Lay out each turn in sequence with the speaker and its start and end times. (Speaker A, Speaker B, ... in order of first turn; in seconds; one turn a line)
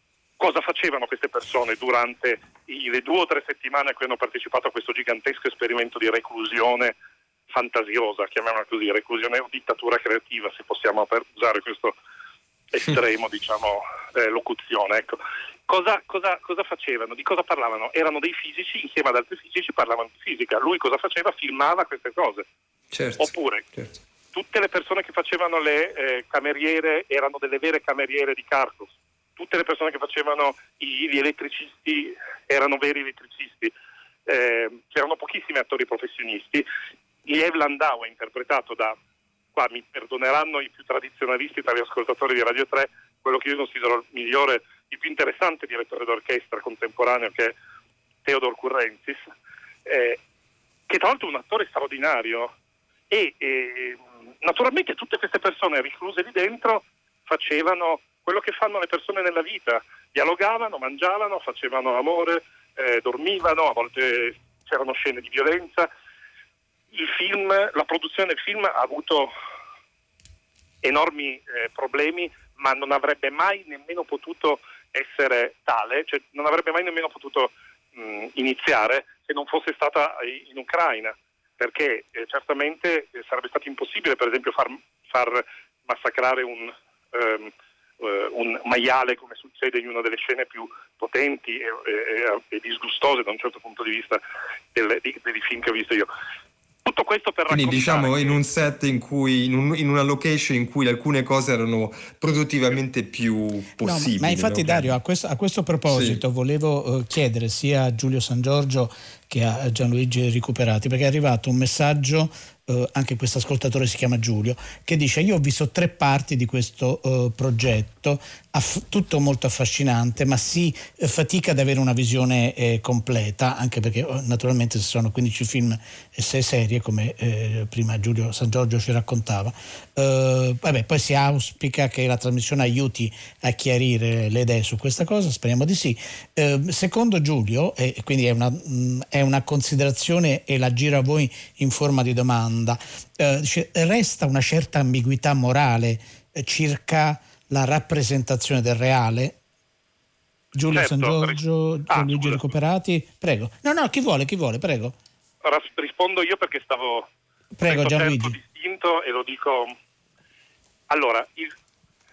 Speaker A: 0.4-7.0
Speaker A: 7.5-11.9
Speaker A: 12.7-22.4
Speaker B: 22.9-23.9
Speaker A: 23.2-23.7
Speaker A: 24.3-33.7
Speaker A: 34.3-36.7
Speaker A: 37.2-39.0
Speaker A: 39.5-47.5
Speaker A: 48.2-49.2
Speaker A: 49.9-50.2
Speaker A: 50.9-52.5
Speaker A: 53.1-65.9
Speaker A: 66.9-69.3
Speaker A: 70.8-94.2
Speaker A: 94.7-96.1
Speaker A: 96.8-98.4
Speaker B: 97.5-104.9
Speaker C: 103.8-149.4
Speaker B: 105.9-106.2
Speaker C: 150.6-154.9
Speaker A: 150.7-152.4
Speaker A: 155.4-157.1
Speaker C: 157.6-158.3
Speaker A: 157.6-159.7
Speaker A: 160.9-161.5